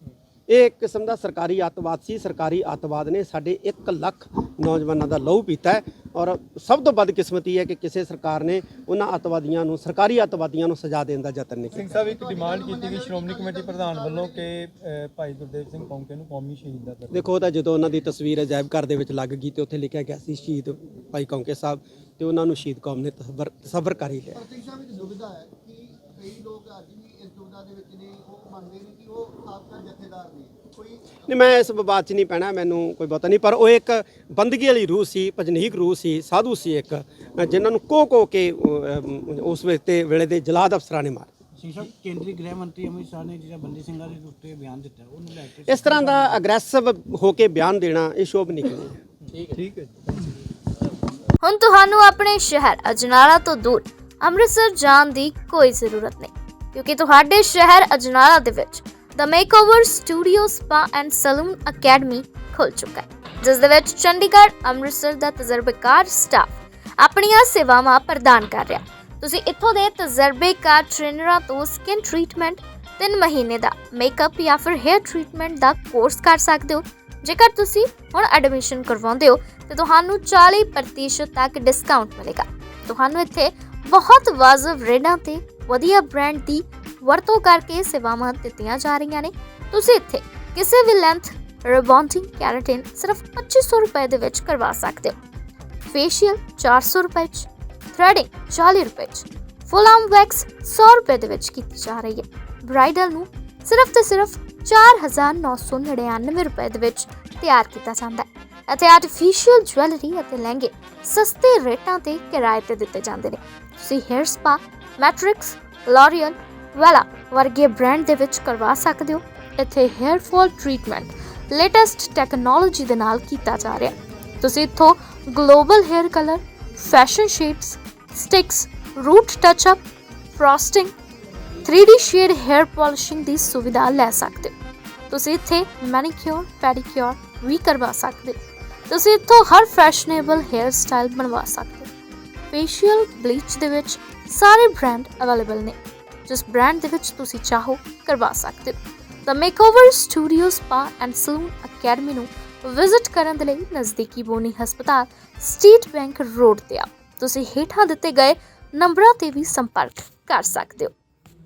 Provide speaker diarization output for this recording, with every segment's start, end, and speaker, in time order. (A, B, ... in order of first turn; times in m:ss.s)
0:00.5-0:11.9 A
0:11.7-0:17.3 B
0:11.8-0:14.4 C
0:17.1-0:24.4 A
0:24.3-0:31.2 C
0:31.2-0:41.3 A
0:41.6-0:46.2 D
0:45.6-0:49.0 A
0:49.5-0:49.9 B
0:51.4-1:35.2 E
1:35.9-2:09.8 E
2:10.3-2:10.9 E
2:11.6-2:14.5 E
2:15.1-2:18.4 E
2:18.9-2:21.9 E
2:22.5-2:25.8 E
2:26.3-2:28.8 E
2:29.3-2:40.9 E